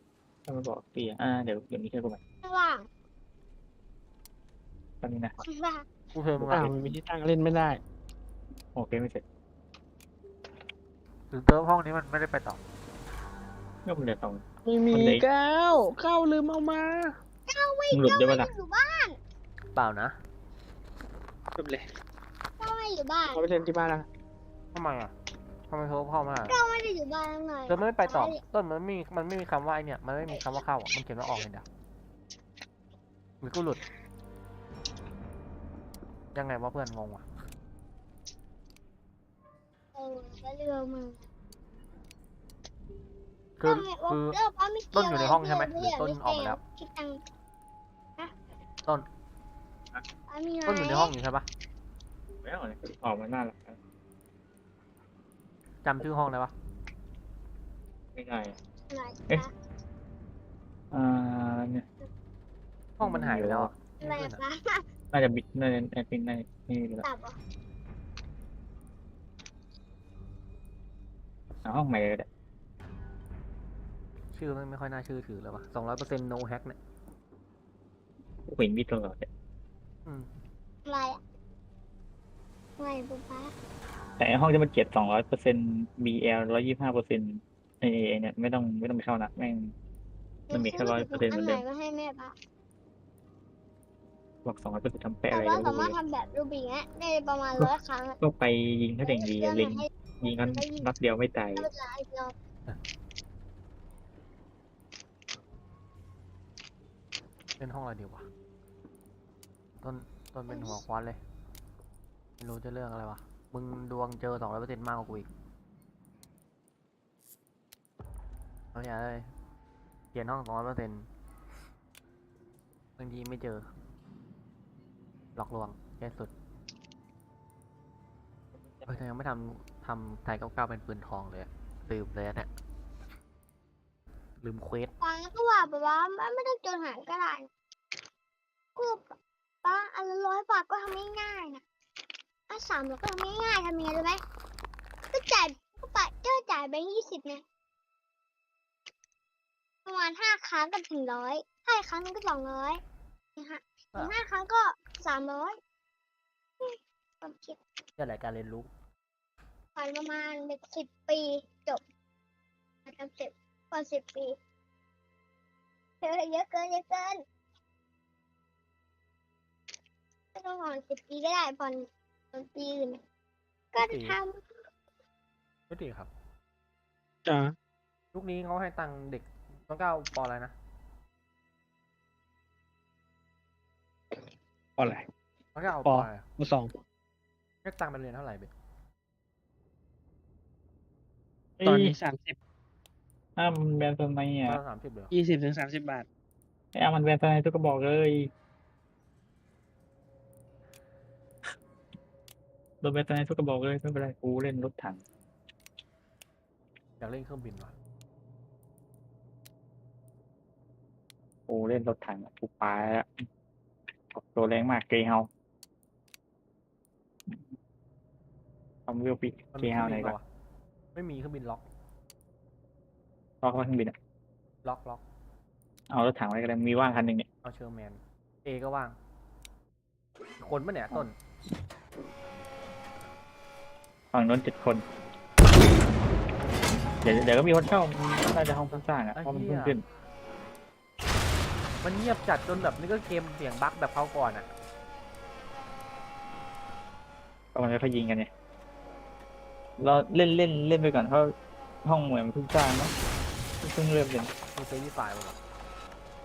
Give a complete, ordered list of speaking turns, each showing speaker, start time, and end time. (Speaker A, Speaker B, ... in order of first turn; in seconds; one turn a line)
Speaker A: 0.5-2.2
Speaker B: 2.4-2.9
Speaker A: 5.0-5.4
Speaker B: 5.4-5.8
Speaker C: 6.1-6.7
Speaker D: 6.5-7.8
Speaker A: 8.7-9.2
Speaker C: 11.3-12.6
Speaker A: 13.8-15.2
Speaker D: 14.6-17.1
Speaker B: 17.5-19.2
Speaker A: 17.9-18.5
Speaker C: 19.7-20.2
Speaker D: 21.6-21.9
Speaker B: 22.6-23.4
Speaker D: 23.3-24.1
Speaker C: 24.7-25.1
Speaker C: 25.7-26.6
Speaker B: 26.5-28.4
Speaker C: 27.7-31.6
Speaker B: 30.2-30.6
Speaker C: 33.4-33.8
Speaker C: 36.3-37.2
Speaker B: 39.9-41.2
Speaker C: 43.6-44.4
Speaker B: 43.6-47.2
Speaker C: 44.9-46.6
Speaker B: 50.3-51.1
Speaker C: 50.6-51.5
Speaker A: 52.4-53.8
Speaker C: 55.8-56.5
Speaker A: 58.1-58.5
Speaker B: 58.9-59.5
Speaker A: 60.9-61.9
Speaker C: 63.0-64.4
Speaker A: 63.0-63.7
Speaker B: 64.0-64.8
Speaker A: 65.1-67.0
Speaker B: 67.0-67.3
Speaker A: 71.6-72.3
Speaker C: 74.3-76.8
Speaker A: 78.5-79.3
Speaker B: 80.8-81.2
Speaker B: 82.8-83.5
Speaker A: 84.2-89.7
Speaker B: 90.5-92.3
Speaker A: 90.5-91.6
Speaker A: 94.4-96.0
Speaker B: 95.3-98.2
Speaker A: 97.6-101.7
Speaker B: 99.0-100.9
Speaker B: 101.6-102.3
Speaker C: 107.6-108.2
Speaker C: 109.8-111.2
Speaker B: 110.5-110.8
Speaker C: 112.4-115.3
Speaker C: 118.7-119.3
Speaker C: 120.1-121.1
Speaker C: 123.0-123.7
Speaker C: 125.3-126.3
Speaker A: 128.8-129.0
Speaker C: 128.9-132.5
Speaker C: 134.4-134.9
Speaker B: 135.0-137.5
Speaker B: 138.8-139.1
Speaker B: 139.6-141.6
Speaker B: 142.5-144.2
Speaker B: 145.1-147.4
Speaker B: 149.8-152.8
Speaker B: 153.3-155.6
Speaker B: 156.6-157.6
Speaker C: 158.0-158.7
Speaker B: 159.7-161.8
Speaker B: 162.8-164.3
Speaker B: 166.0-167.2
Speaker B: 170.3-173.0
Speaker B: 173.7-174.4
Speaker C: 173.8-174.2
Speaker C: 175.7-176.1
Speaker D: 177.2-177.5
Speaker C: 178.1-180.5
Speaker D: 184.8-185.1
Speaker C: 185.5-186.2
Speaker D: 185.8-186.7
Speaker C: 187.6-188.5
Speaker A: 191.6-191.9
Speaker D: 191.6-192.4
Speaker A: 193.4-194.6
Speaker C: 194.4-195.1
Speaker D: 195.1-196.1
Speaker A: 196.7-198.3
Speaker A: 202.8-205.0
Speaker C: 207.0-207.7
Speaker A: 211.5-213.2
Speaker A: 214.1-215.3
Speaker A: 218.9-220.2
Speaker C: 219.5-220.2
Speaker C: 220.9-221.6
Speaker A: 223.4-223.9
Speaker C: 224.6-225.0
Speaker A: 225.9-227.3
Speaker C: 227.4-228.9
Speaker C: 230.4-231.1
Speaker A: 234.1-234.8
Speaker A: 237.0-239.8
Speaker C: 238.7-239.8
Speaker C: 241.8-244.5
Speaker A: 247.5-248.3
Speaker A: 249.8-252.9
Speaker A: 253.6-254.3
Speaker C: 254.5-255.4